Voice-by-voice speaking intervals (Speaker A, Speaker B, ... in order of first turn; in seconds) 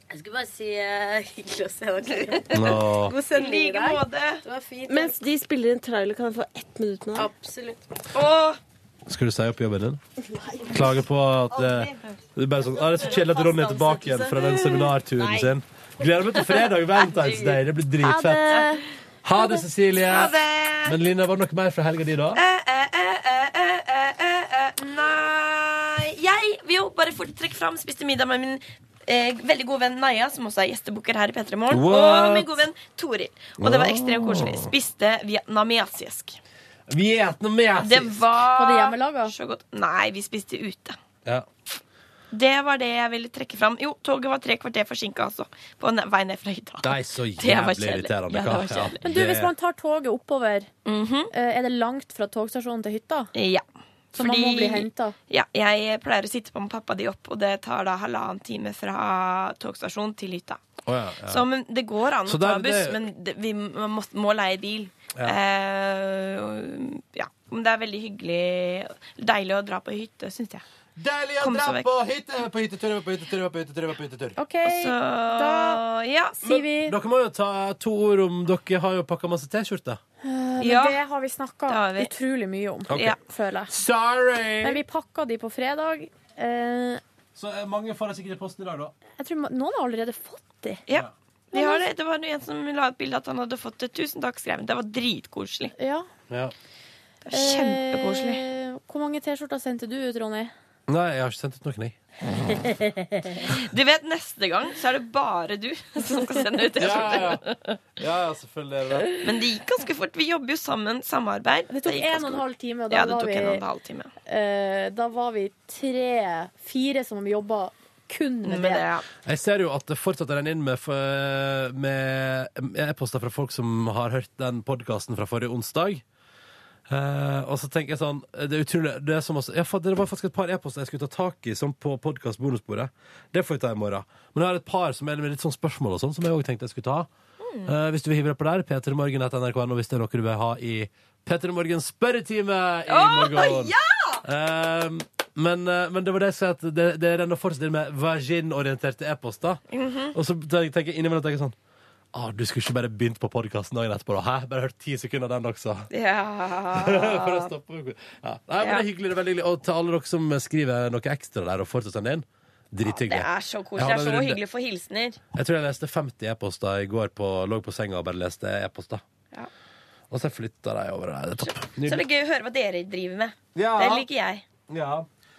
Speaker A: 0.1-5.1, 7.2-7.8, 12.6-14.4
Speaker B: 2.5-3.1, 9.1-10.0, 10.7-18.6, 19.2-22.4, 31.7-32.7, 33.6-34.7, 36.9-38.2, 46.8-49.5, 60.9-61.4, 62.2-63.0, 71.0-74.4, 76.5-80.0, 82.9-83.2, 83.7-84.8, 87.3-88.9, 100.9-101.9, 106.8-107.4, 108.0-109.2, 119.2-126.0, 126.9-137.1, 137.6-149.6, 150.1-151.5, 152.1-155.9, 156.7-164.4, 165.3-169.0, 170.1-172.1, 173.5-174.1, 174.7-175.1
Speaker C: 3.3-4.4, 8.1-8.6, 17.1-17.6, 20.0-21.0, 22.3-36.4, 37.8-41.0, 42.3-49.0, 50.8-51.3, 53.3-60.6, 61.2-70.6, 71.4-71.8, 74.6-76.5, 80.6-81.0, 81.7-82.1, 90.9-95.7, 97.2-98.4, 103.4-107.6, 109.2-114.1, 118.4-119.0, 137.4-137.7, 142.9-144.2, 149.7-150.1, 155.9-157.5, 158.6-158.8, 162.8-165.2, 171.7-174.4
Speaker D: 4.9-7.3
Speaker E: 18.1-18.8, 38.5-39.3, 49.0-50.7, 51.3-53.3, 54.1-55.1, 74.4-75.8, 76.4-77.0, 80.2-83.7, 84.6-87.0, 89.2-90.8, 91.5-91.8, 95.8-96.1, 97.3-100.5, 111.7-113.6, 114.2-118.8